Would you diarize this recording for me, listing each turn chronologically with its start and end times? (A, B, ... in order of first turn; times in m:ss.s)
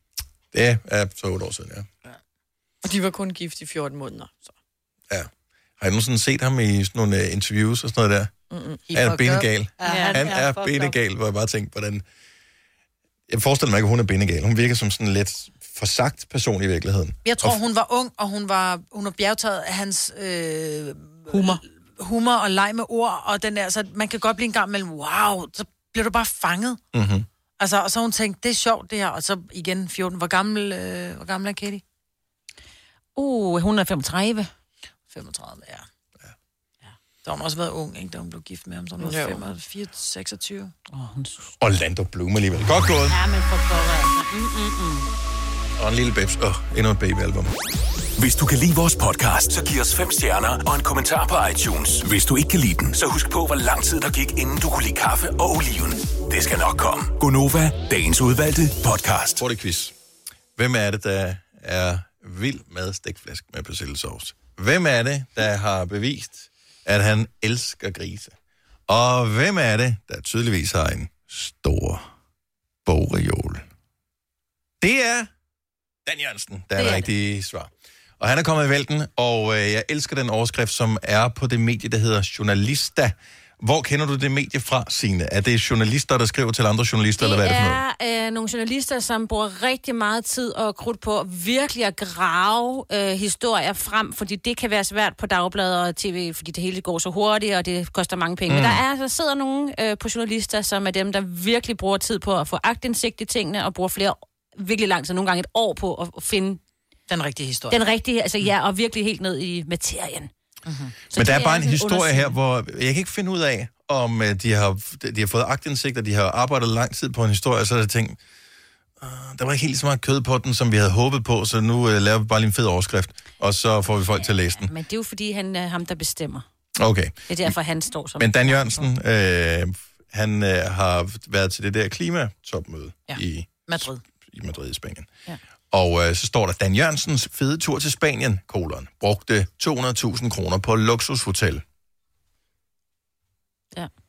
0:00.5-0:01.9 A
0:02.8-0:04.5 B
0:05.1-0:08.3 A
0:08.5-0:08.8 B
0:08.9-0:10.6 C
0:08.9-0:12.0 A
0:09.8-0:10.9 D
0:13.3-0:17.6 A
0:17.2-0:26.8 C
0:26.9-0:27.3 A
0:27.6-0:31.8 C
0:33.2-0:34.5 D
0:35.1-0:35.9 C
0:37.2-0:40.7 C
0:39.0-0:39.4 B
0:40.9-0:41.5 D
0:41.6-0:43.2 A
0:43.1-0:45.1 D
0:45.8-0:47.5 A
0:48.2-0:59.4 E
0:59.4-0:59.9 A
1:00.6-1:08.4 A
1:08.9-1:12.1 A
1:12.8-1:13.7 A
1:14.8-1:15.3 A
1:16.0-1:27.8 A
1:16.8-1:17.1 D
1:27.2-1:46.6 D
1:38.5-1:38.8 A
1:47.1-1:47.8 C
1:47.7-1:50.3 D
1:50.7-1:50.9 C
1:51.1-1:52.4 D
1:51.1-1:58.2 A
1:59.0-2:04.7 A
2:04.5-2:06.4 D
2:06.8-2:07.5 A
2:07.3-2:08.9 D
2:08.2-2:15.1 A
2:13.1-2:14.0 C
2:15.7-2:21.6 A